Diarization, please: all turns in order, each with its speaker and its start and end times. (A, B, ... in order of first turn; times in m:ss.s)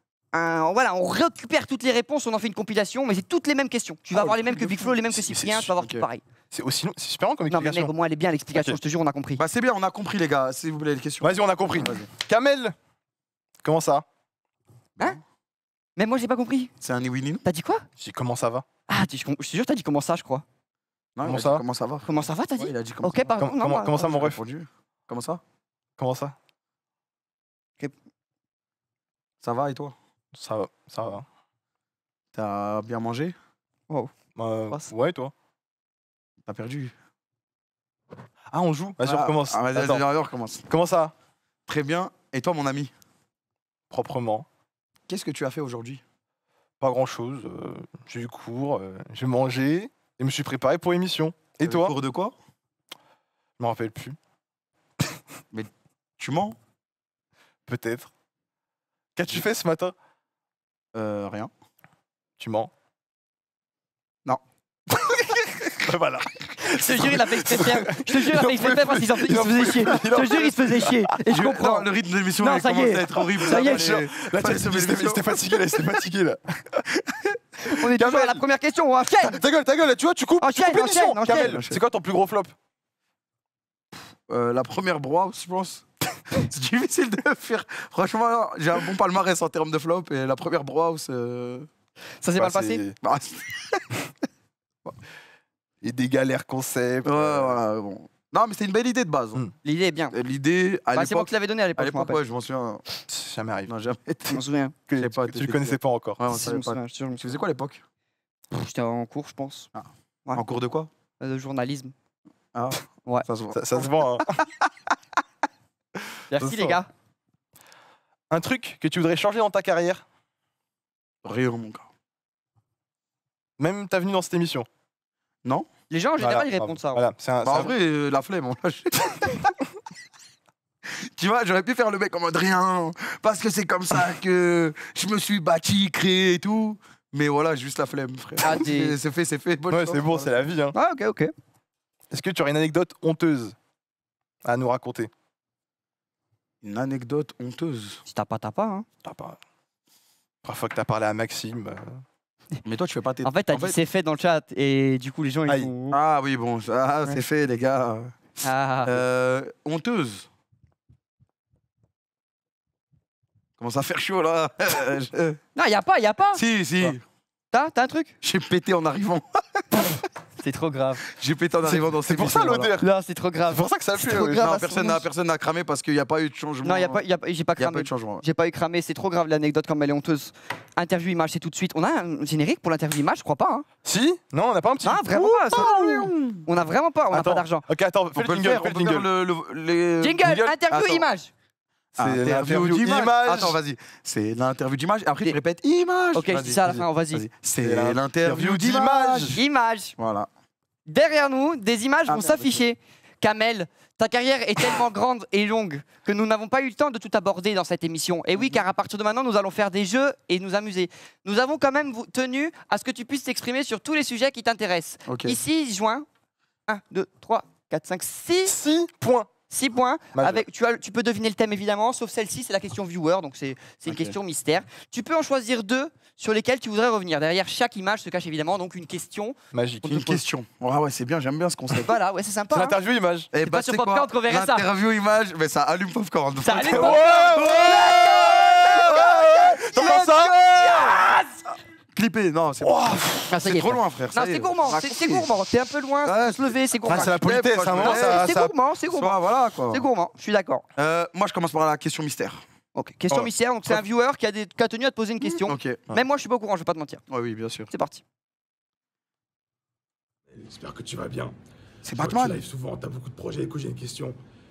0:00.3-0:06.2 A
0:04.1-0:05.7 B
0:05.8-0:06.0 C
0:06.5-0:07.9 B
0:07.5-0:09.4 A
0:09.4-0:12.1 C
0:11.2-0:12.7 B
0:13.6-0:14.0 B
0:16.0-0:16.7 A
0:16.8-0:17.4 C
0:17.4-0:17.8 A
0:18.0-0:18.6 B
0:18.9-0:20.4 A
0:21.2-0:23.3 C
0:21.2-0:21.6 B
0:22.0-0:24.1 A
0:23.4-0:24.4 B
0:24.0-0:25.4 C
0:26.0-0:26.3 B
0:29.4-0:30.0 C
0:30.3-0:31.2 B
0:32.3-0:33.4 C
0:34.4-0:35.3 B
0:36.4-0:36.9 C
0:38.5-0:40.0 B
0:39.0-0:40.6 C
0:40.7-0:41.1 B
0:41.7-0:42.9 C
0:43.9-0:44.4 B
0:45.1-0:46.0 C
0:46.8-0:51.9 B
0:51.6-0:52.3 C
0:53.6-0:54.2 B
0:55.5-0:56.6 C
0:57.7-0:58.1 B
0:59.2-0:59.9 B
1:00.9-1:01.5 C
1:02.4-1:02.7 B
1:04.9-1:11.1 B
1:06.6-1:11.9 A
1:11.3-1:15.5 C
1:12.4-1:13.8 A
1:13.4-1:16.8 B
1:17.6-1:19.4 A
1:18.0-1:18.4 B
1:19.2-1:22.5 B
1:20.4-1:21.6 A
1:21.3-1:21.8 C
1:24.3-1:31.7 C
1:32.2-1:32.8 A
1:32.4-1:33.0 B
1:33.0-1:33.8 C
1:35.8-1:37.6 B
1:37.0-1:39.4 C
1:39.6-1:40.1 A
1:40.1-1:42.8 C
1:40.9-1:42.2 A
1:43.1-1:43.7 B
1:43.6-1:44.4 C
1:44.3-1:44.7 A
1:44.9-1:46.2 B
1:45.0-1:47.8 C
1:46.3-1:47.4 A
1:48.5-1:49.7 A
1:49.7-1:50.9 C
1:51.2-1:51.9 A
1:52.5-1:54.2 C
1:53.5-1:54.4 B
1:56.3-1:56.9 A
1:56.3-1:56.8 B
1:58.3-2:00.0 B
2:01.2-2:01.9 C
2:03.6-2:04.7 B
2:05.9-2:07.0 A
2:06.2-2:07.7 B
2:07.4-2:09.5 C
2:10.9-2:20.3 C
2:18.4-2:19.0 A
2:19.7-2:20.7 B
2:20.7-2:21.3 A
2:22.1-2:23.5 B
2:24.4-2:25.1 B
2:26.6-2:28.0 C
2:28.1-2:28.8 A
2:29.0-2:29.4 B
2:30.4-2:32.0 B
2:32.6-2:33.8 C
2:33.2-2:35.9 A
2:35.9-2:38.1 C
2:38.4-2:39.0 A
2:38.8-2:40.3 C
2:43.6-2:45.4 C
2:45.5-2:46.4 A
2:46.3-2:47.0 C
2:47.5-2:48.1 A
2:48.2-2:49.6 C
2:50.4-2:51.0 A
2:51.1-2:52.8 C
2:51.7-2:52.9 B
2:52.8-2:55.0 A
2:53.5-2:54.4 B
2:54.4-2:57.0 C
2:56.6-3:03.6 A
2:57.6-2:58.2 C
3:03.8-3:06.1 B
3:04.8-3:05.8 A
3:05.5-3:06.4 C
3:06.4-3:07.6 A
3:07.1-3:09.1 B
3:08.1-3:10.2 C
3:10.0-3:11.3 A
3:10.2-3:11.0 B
3:12.0-3:13.6 B
3:12.0-3:19.4 C
3:16.1-3:17.2 A
3:16.3-3:16.8 B
3:17.6-3:19.4 B
3:19.3-3:19.9 A
3:20.0-3:20.3 C
3:20.9-3:36.0 A
3:22.1-3:22.6 C
3:35.1-3:35.4 C
3:36.7-3:38.5 A
3:38.4-3:39.3 B
3:39.5-3:49.4 A
3:40.2-3:40.4 B
3:43.8-3:44.1 C
3:49.5-3:50.2 B
3:49.8-3:51.9 C
3:51.8-3:52.8 A
3:52.5-3:53.3 B
3:53.3-4:01.0 C
3:53.4-3:54.6 A
3:56.4-4:01.4 A
3:56.5-4:01.1 B
4:01.9-4:05.3 C
4:02.6-4:03.3 B
4:03.3-4:09.2 A
4:06.0-4:08.3 C
4:06.9-4:08.5 B
4:08.9-4:09.8 C
4:09.7-4:10.6 A
4:10.8-4:12.4 C
4:12.7-4:17.0 A
4:15.2-4:15.8 C
4:17.1-4:17.7 C
4:17.7-4:18.0 A
4:20.3-4:21.3 D
4:21.8-4:22.4 C
4:21.8-4:24.2 D